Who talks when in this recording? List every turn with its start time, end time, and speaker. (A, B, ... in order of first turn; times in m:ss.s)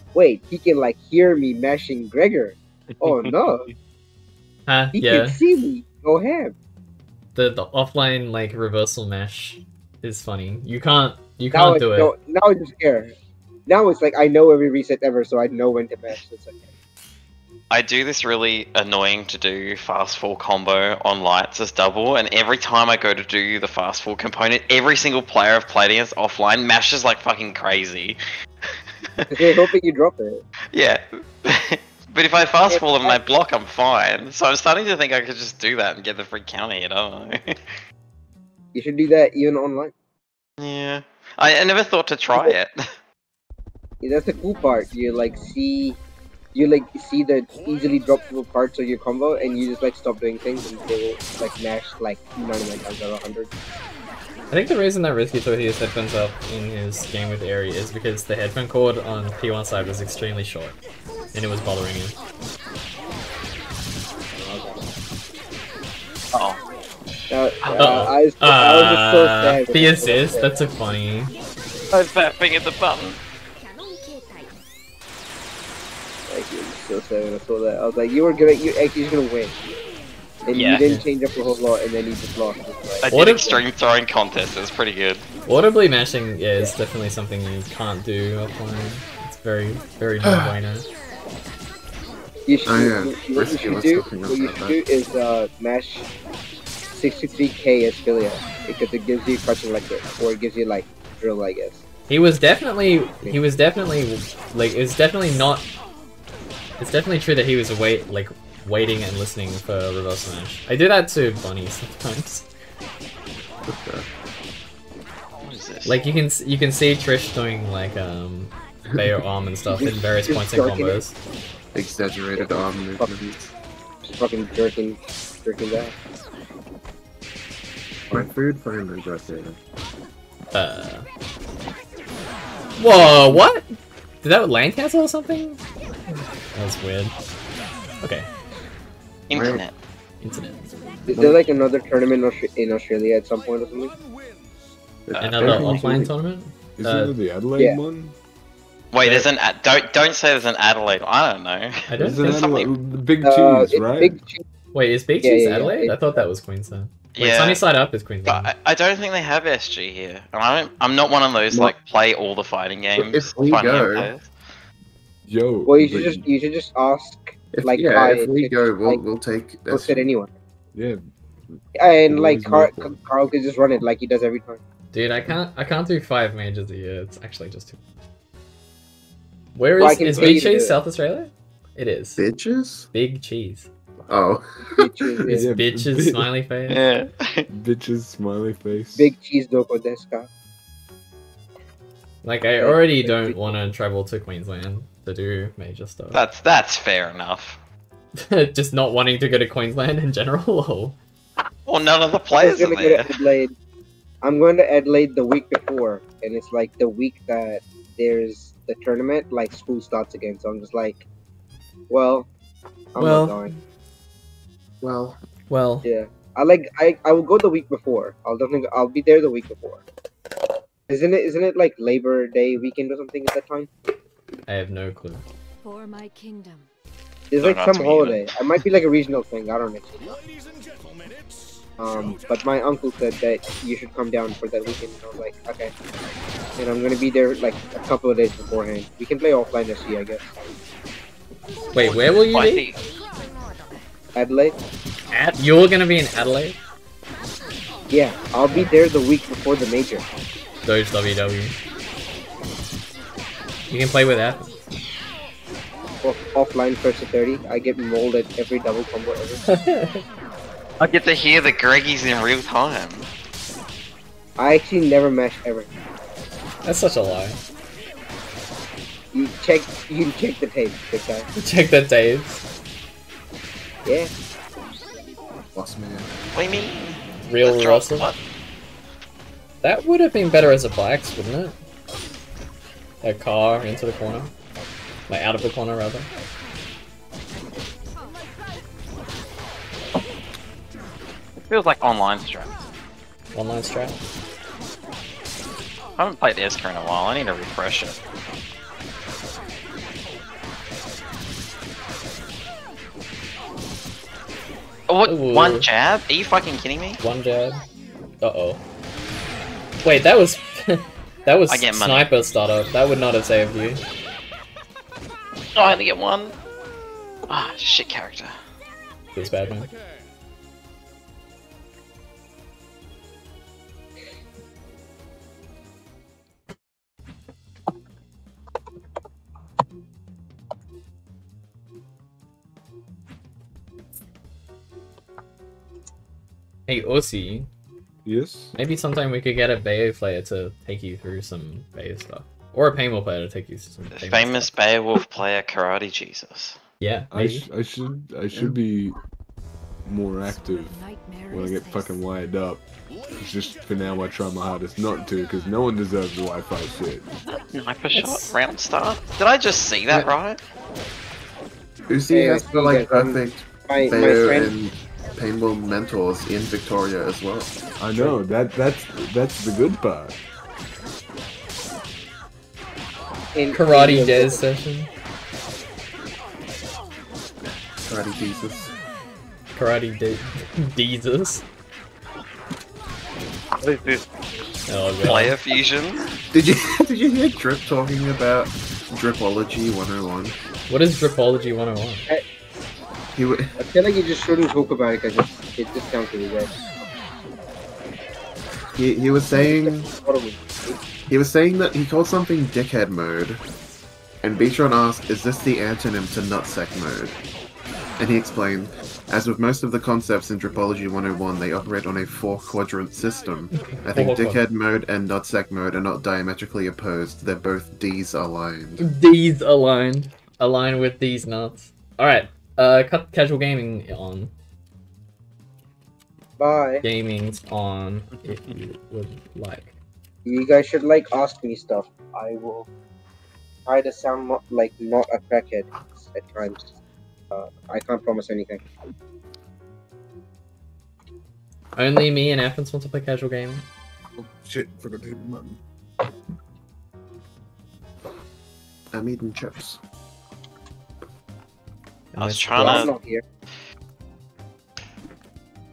0:00.1-0:03.7 A
0:04.7-0:05.4 B
0:04.9-0:06.5 A
0:07.3-0:12.1 B
0:11.5-0:13.1 A
0:13.7-0:16.7 A
0:17.7-0:29.6 C
0:29.3-0:30.4 A
0:30.7-0:37.7 C
0:32.7-0:33.2 A
0:38.7-0:39.9 A
0:40.6-0:42.9 C
0:44.0-0:46.0 A
0:46.5-0:53.5 A
0:54.5-1:00.8 B
1:01.3-1:02.2 B
1:04.4-1:04.8 A
1:06.3-1:06.6 C
1:07.3-1:10.5 A
1:07.6-1:08.1 C
1:07.7-1:11.3 B
1:11.9-1:13.2 C
1:16.3-1:19.5 A
1:20.5-1:23.6 A
1:20.5-1:21.0 B
1:23.0-1:25.2 C
1:23.1-1:23.6 B
1:25.4-1:30.9 B
1:30.2-1:30.5 D
1:32.5-1:36.1 A
1:32.6-1:34.8 D
1:36.9-1:41.8 A
1:42.1-1:45.7 B
1:46.8-1:52.4 B
1:53.6-1:54.1 D
1:55.4-1:56.0 C
1:55.8-2:01.2 B
1:59.7-2:01.0 A
2:01.7-2:03.5 D
2:04.0-2:05.9 A
2:08.1-2:09.6 D
2:10.5-2:11.0 B
2:12.8-2:13.7 B
2:14.2-2:15.6 B
2:16.5-2:17.1 B
2:18.0-2:18.3 B
2:19.3-2:19.7 C
2:19.3-2:19.6 D
2:20.2-2:20.7 B
2:21.1-2:23.9 A
2:21.1-2:21.4 D
2:25.1-2:26.1 D
2:25.1-2:25.8 C
2:25.2-2:27.1 B
2:26.8-2:28.1 E
2:28.9-2:32.7 C
2:29.0-2:29.3 B
2:31.9-2:32.5 B
2:32.0-2:34.2 E
2:33.2-2:34.4 A
2:34.7-2:38.5 B
2:35.2-2:36.0 A
2:37.2-2:37.6 C
2:38.2-2:44.3 C
2:43.0-2:44.1 D
2:45.2-2:46.2 E
2:45.7-2:49.0 A
2:47.5-2:50.0 D
2:49.7-2:50.3 A
2:50.7-2:53.1 E
2:51.7-2:54.6 A
2:54.9-2:57.8 B
2:59.5-3:02.2 B
2:59.8-3:00.8 A
3:02.2-3:02.9 D
3:02.9-3:03.7 B
3:04.1-3:05.2 D
3:04.7-3:05.5 A
3:05.3-3:06.3 E
3:05.5-3:06.8 B
3:06.7-3:07.5 C
3:07.5-3:09.1 E
3:09.0-3:10.3 A
3:12.2-3:16.2 B
3:12.6-3:13.6 A
3:16.1-3:17.6 C
3:18.2-3:21.0 B
3:21.6-3:23.2 C
3:22.4-3:23.5 A
3:24.2-3:31.0 A
3:31.9-3:32.3 A
3:32.9-3:33.5 A
3:33.0-3:33.6 B
3:34.8-3:35.2 D
3:35.5-3:35.9 B
3:35.8-3:39.8 A
3:40.9-3:43.7 A
3:44.5-3:45.2 B
3:45.6-3:46.7 F
3:47.3-3:50.2 A
3:47.4-3:48.2 C
3:51.8-3:55.7 A
3:56.6-4:00.3 A
4:01.7-4:02.7 B
4:01.8-4:02.8 C
4:04.1-4:04.6 A
4:05.1-4:06.6 B
4:07.9-4:10.0 A
4:10.6-4:11.6 B
4:13.7-4:14.6 B
4:16.0-4:19.4 A
4:19.5-4:20.0 B
4:20.8-4:23.1 C
4:24.4-4:25.7 A
4:26.6-4:27.4 B
4:29.1-4:31.3 A
4:31.4-4:32.4 B
4:33.8-4:34.1 A
4:35.5-4:36.1 D
4:36.3-4:36.8 C
4:37.3-4:38.1 B
4:37.4-4:38.2 C
4:39.6-4:41.5 B
4:43.0-4:44.3 B
4:45.1-4:46.1 B
4:47.9-4:48.6 F
4:51.4-4:52.6 C
4:53.3-4:54.0 B
4:56.0-4:58.0 C
5:04.9-5:07.0 C
5:05.0-5:05.6 B
5:07.0-5:07.6 B
5:08.2-5:08.6 B
5:09.8-5:13.8 B
5:11.5-5:12.1 C
5:15.5-5:16.4 C
5:17.3-5:18.3 C
5:19.1-5:19.7 B
5:36.7-5:37.5 B
5:38.0-5:38.6 E
5:38.6-5:44.5 B
5:43.9-5:46.6 C
5:46.8-5:47.4 B
5:47.1-5:49.0 E
5:49.8-5:50.8 E
5:50.2-5:52.0 F
5:51.3-5:57.0 E
5:57.5-6:00.4 C
5:57.9-5:58.3 B
6:01.9-6:08.1 D
6:02.1-6:04.5 A
6:07.8-6:10.2 E
6:13.3-6:14.4 A
6:13.5-6:14.9 B
6:17.5-6:18.7 D
6:19.5-6:21.4 B
6:23.6-6:24.0 C
6:24.7-6:25.4 B
6:25.0-6:26.0 C
6:26.3-6:30.4 D
6:30.7-6:32.1 B
6:33.1-6:33.6 D
6:33.6-6:36.5 A
6:38.8-6:39.9 D
6:39.3-6:40.8 A
6:41.1-6:43.4 D
6:44.2-6:47.2 D
6:48.0-6:58.8 D
6:53.5-6:54.4 B
6:58.8-7:04.3 B
7:06.4-7:06.8 A
7:06.8-7:09.7 B
7:10.2-7:12.7 A
7:13.6-7:16.8 A
7:17.3-7:18.6 A
7:21.8-7:23.6 B
7:24.2-7:25.6 E
7:28.9-7:29.8 D
7:32.1-7:32.9 B
7:32.2-7:32.9 C
7:32.6-7:33.2 A